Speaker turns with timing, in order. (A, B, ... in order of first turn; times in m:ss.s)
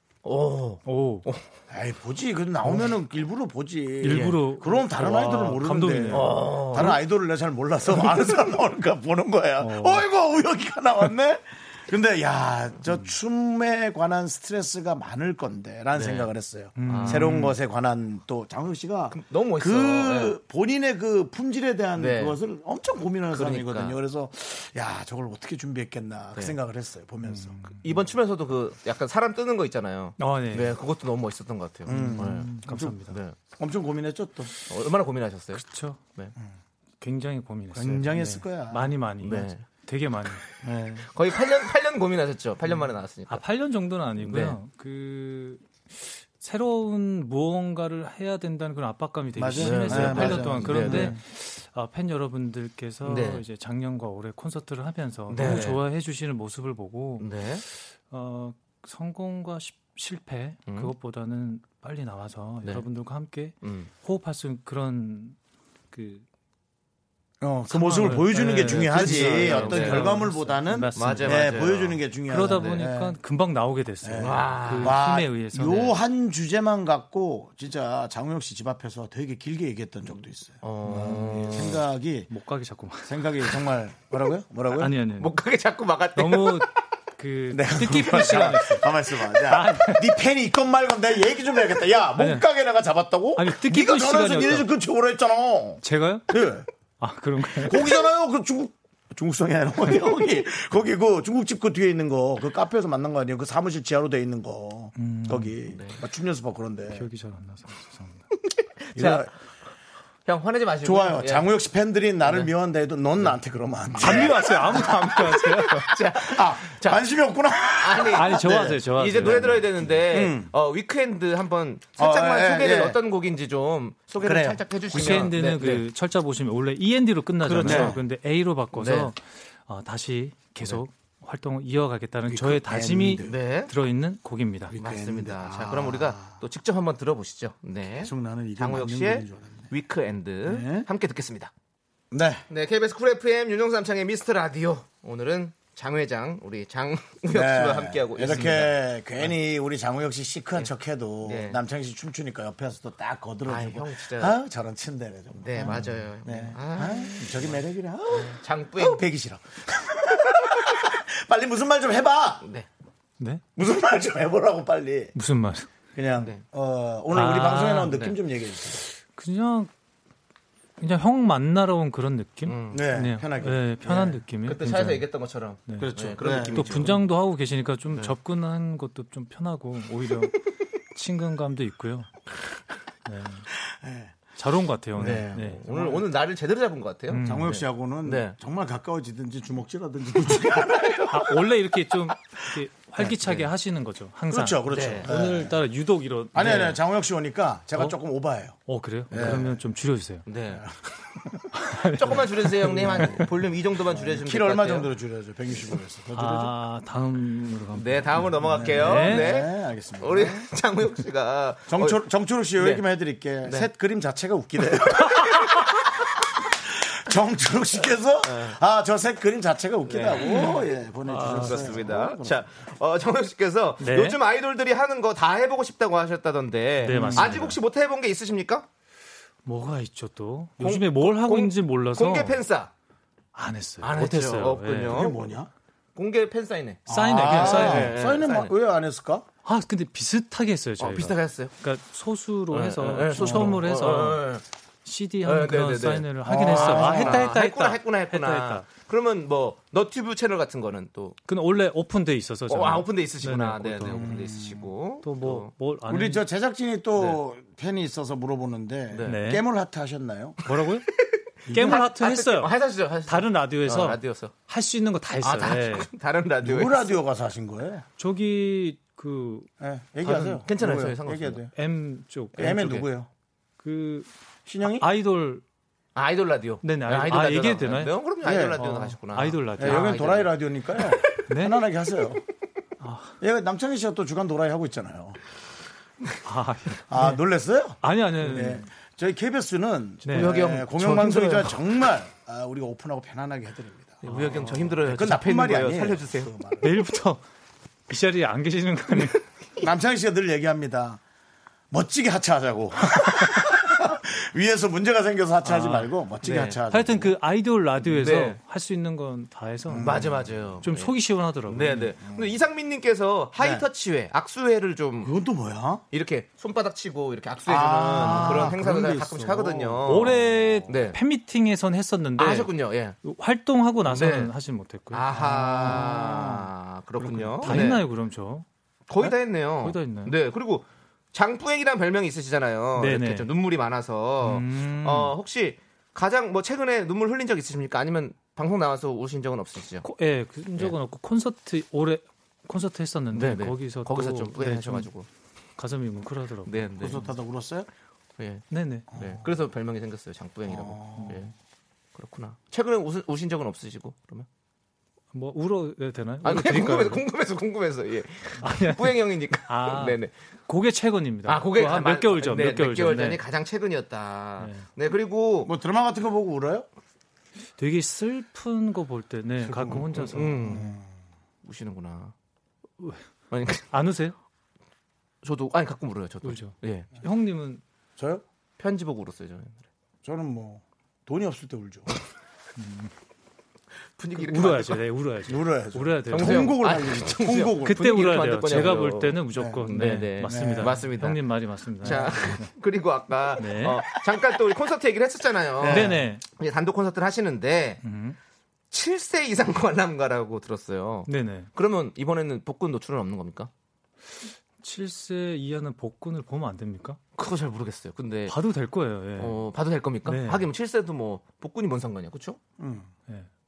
0:00.2-0:01.4 A
0:00.8-0:01.3 B
0:01.7-0:27.6 C
0:04.0-0:07.0 B
0:04.1-0:04.4 A
0:06.1-0:07.0 A
0:09.6-0:10.1 B
0:16.0-0:16.3 A
0:16.8-0:17.6 B
0:16.8-0:17.4 A
0:19.1-0:20.4 A
0:22.0-0:22.4 A
0:23.3-0:24.0 A
0:27.7-0:33.4 A
0:30.2-0:30.8 B
0:31.9-0:33.0 C
0:31.9-0:33.2 B
0:33.5-0:34.5 C
0:34.7-0:35.6 A
0:35.6-0:36.0 B
0:37.0-0:40.4 B
0:37.7-0:38.9 C
0:39.2-0:39.6 A
0:40.6-0:41.1 C
0:41.1-0:43.4 A
0:43.3-1:05.4 B
0:44.2-0:44.6 A
0:49.4-0:51.2 C
0:49.6-0:51.2 A
0:53.0-0:53.4 A
0:55.3-0:55.8 A
0:57.2-0:57.6 A
1:00.7-1:00.9 A
1:03.6-1:03.9 A
1:05.9-1:06.3 B
1:07.4-1:13.2 C
1:07.7-1:11.6 B
1:08.7-1:10.2 A
1:11.0-1:12.8 A
1:12.3-1:16.0 B
1:14.0-1:22.3 C
1:14.2-1:15.0 A
1:20.6-1:21.8 A
1:20.9-1:21.7 B
1:22.3-1:23.6 B
1:23.0-1:25.0 C
1:24.7-1:25.3 B
1:25.2-1:26.7 A
1:26.2-1:30.2 B
1:27.5-1:36.7 C
1:32.1-1:32.5 B
1:33.4-1:34.7 B
1:35.8-1:36.4 B
1:37.0-1:38.0 B
1:37.5-1:47.1 C
1:45.0-1:45.7 B
1:45.7-1:46.0 A
1:46.9-1:48.2 B
1:48.8-1:49.3 A
1:49.0-1:49.3 C
1:50.3-1:51.5 A
1:50.8-1:54.8 C
1:52.2-1:52.5 A
1:53.9-1:55.2 A
1:54.0-1:55.9 B
1:55.7-1:57.1 A
1:56.2-2:00.5 C
1:57.8-2:05.9 A
1:58.1-1:59.9 B
2:02.0-2:03.0 C
2:04.2-2:04.6 C
2:04.9-2:14.8 B
2:07.4-2:08.0 C
2:07.5-2:08.0 A
2:08.7-2:09.1 A
2:12.3-2:13.4 C
2:13.2-2:13.7 A
2:14.7-2:16.3 C
2:14.8-2:21.5 A
2:18.0-2:19.7 C
2:20.4-2:20.9 C
2:22.1-2:22.4 C
2:22.5-2:29.3 A
2:27.3-2:42.4 C
2:31.2-2:31.6 A
2:33.5-2:34.4 A
2:35.4-2:37.6 A
2:35.6-2:36.0 B
2:38.1-2:39.0 A
2:43.6-2:45.2 C
2:45.2-2:45.7 B
2:46.0-2:48.8 C
2:47.1-2:48.1 B
2:49.0-2:49.7 B
2:50.8-2:55.1 B
2:52.4-2:52.9 A
2:52.7-2:54.2 C
2:54.4-2:57.1 A
2:55.7-3:02.1 B
2:55.8-2:57.0 C
3:03.1-3:03.5 B
3:03.7-3:04.2 C
3:04.4-3:05.6 B
3:05.0-3:06.0 C
3:05.0-3:08.4 A
3:07.1-3:07.6 B
3:07.2-3:11.5 C
3:11.1-3:16.8 B
3:13.2-3:13.5 A
3:14.3-3:15.6 C
3:14.7-3:15.1 A
3:16.3-3:18.6 C
3:16.4-3:16.8 A
3:18.7-3:20.3 B
3:19.1-3:19.6 C
3:20.3-3:20.6 A
3:21.5-3:23.3 B
3:21.9-3:24.9 A
3:22.6-3:26.5 C
3:26.1-3:29.4 B
3:27.8-3:32.0 A
3:28.4-3:30.5 C
3:31.7-3:35.8 C
3:32.6-3:32.8 A
3:33.4-3:33.7 A
3:36.5-3:42.5 C
3:38.2-3:38.6 A
3:39.9-3:48.7 A
3:40.3-3:42.0 B
3:43.8-3:44.2 B
3:46.8-3:47.6 B
3:46.9-3:47.5 C
3:49.4-3:52.4 B
3:50.6-3:52.7 A
3:53.4-3:55.2 B
3:53.8-3:55.3 A
3:54.8-3:55.5 C
3:56.0-3:58.5 A
3:56.9-3:58.1 B
3:56.9-3:59.3 C
3:59.4-4:08.7 B
4:00.8-4:01.5 A
4:02.5-4:04.4 A
4:03.2-4:03.6 C
4:05.2-4:11.2 A
4:06.2-4:07.3 C
4:11.3-4:14.2 B
4:12.5-4:15.5 A
4:13.9-4:14.7 C
4:15.0-4:16.2 B
4:15.9-4:20.4 C
4:18.9-4:19.2 A
4:19.0-4:19.5 B
4:20.4-4:20.9 B
4:20.9-4:24.3 A
4:21.5-4:21.8 C
4:21.5-4:22.6 B
4:23.1-4:25.9 B
4:25.2-4:27.0 A
4:26.4-4:27.8 C
4:28.0-4:29.5 B
4:29.6-4:31.5 C
4:30.0-4:30.4 B
4:30.4-4:31.4 A
4:31.5-4:32.8 B
4:32.4-4:32.8 A
4:32.4-4:33.1 C
4:33.6-4:34.1 B
4:34.5-4:34.9 C
4:34.6-4:35.4 B
4:36.0-4:40.4 A
4:36.6-4:38.0 B
4:38.2-4:38.7 C
4:38.6-4:40.2 B
4:39.6-4:42.2 C
4:41.3-4:41.6 B
4:42.8-4:43.2 B
4:43.2-4:45.2 C
4:46.2-4:47.2 B
4:46.9-4:56.8 C
4:47.8-4:48.7 B
4:50.0-4:50.4 B
4:50.1-4:51.8 A
4:54.0-4:56.3 A
4:54.0-4:54.8 B
4:56.6-4:57.2 B
4:57.9-4:59.3 B
4:59.6-5:01.0 C
5:01.7-5:07.2 C
5:05.5-5:05.9 B
5:06.2-5:06.6 A
5:06.7-5:12.0 B
5:07.8-5:08.4 A
5:09.7-5:10.4 C
5:09.8-5:10.9 A
5:11.5-5:15.1 A
5:12.0-5:12.3 C
5:13.4-5:13.6 C
5:15.0-5:15.8 C
5:15.9-5:21.0 A
5:17.5-5:20.2 C
5:19.8-5:22.5 B
5:22.2-5:23.0 A
5:23.0-5:26.4 B
5:23.9-5:24.3 A
5:24.9-5:27.9 A
5:25.1-5:26.3 C
5:27.0-5:27.8 C
5:27.4-5:28.5 B
5:28.9-5:39.9 A
5:29.6-5:30.2 B
5:32.8-5:33.3 B
5:34.2-5:35.2 B
5:39.8-5:44.9 B
5:43.1-5:45.1 A
5:45.6-5:46.9 B
5:46.5-5:47.1 A
5:46.8-5:47.7 C
5:48.2-5:51.3 A
5:48.5-5:48.9 B
5:50.5-5:51.2 C
5:52.0-5:54.3 A
5:55.1-5:57.0 B
5:56.2-6:00.1 A
5:58.4-6:03.2 B
6:01.3-6:05.5 A
6:04.4-6:04.7 B
6:05.4-6:06.7 C
6:07.6-6:10.7 B
6:09.4-6:10.9 C
6:10.0-6:10.8 A
6:11.4-6:12.1 A
6:12.8-6:13.0 B
6:13.3-6:13.7 A
6:13.7-6:14.2 B
6:15.2-6:16.9 A
6:16.2-6:17.6 B
6:18.0-6:18.2 C
6:18.6-6:19.6 A
6:20.0-6:21.9 C
6:22.6-6:22.9 B
6:24.0-6:24.9 A
6:24.2-6:26.6 B
6:25.2-6:27.9 C
6:26.1-6:31.2 A
6:27.6-6:32.5 B
6:29.3-6:29.7 C
6:30.2-6:30.8 C
6:31.8-6:37.8 A
6:33.4-6:33.8 B
6:35.6-6:36.1 C
6:35.6-6:36.2 B
6:37.8-6:38.2 B
6:38.7-6:43.5 A
6:41.1-6:41.5 B
6:44.6-6:47.0 B
6:47.2-6:48.4 A
6:48.3-6:49.4 B
6:49.2-6:52.4 A
6:50.0-6:50.5 B
6:52.6-6:52.9 C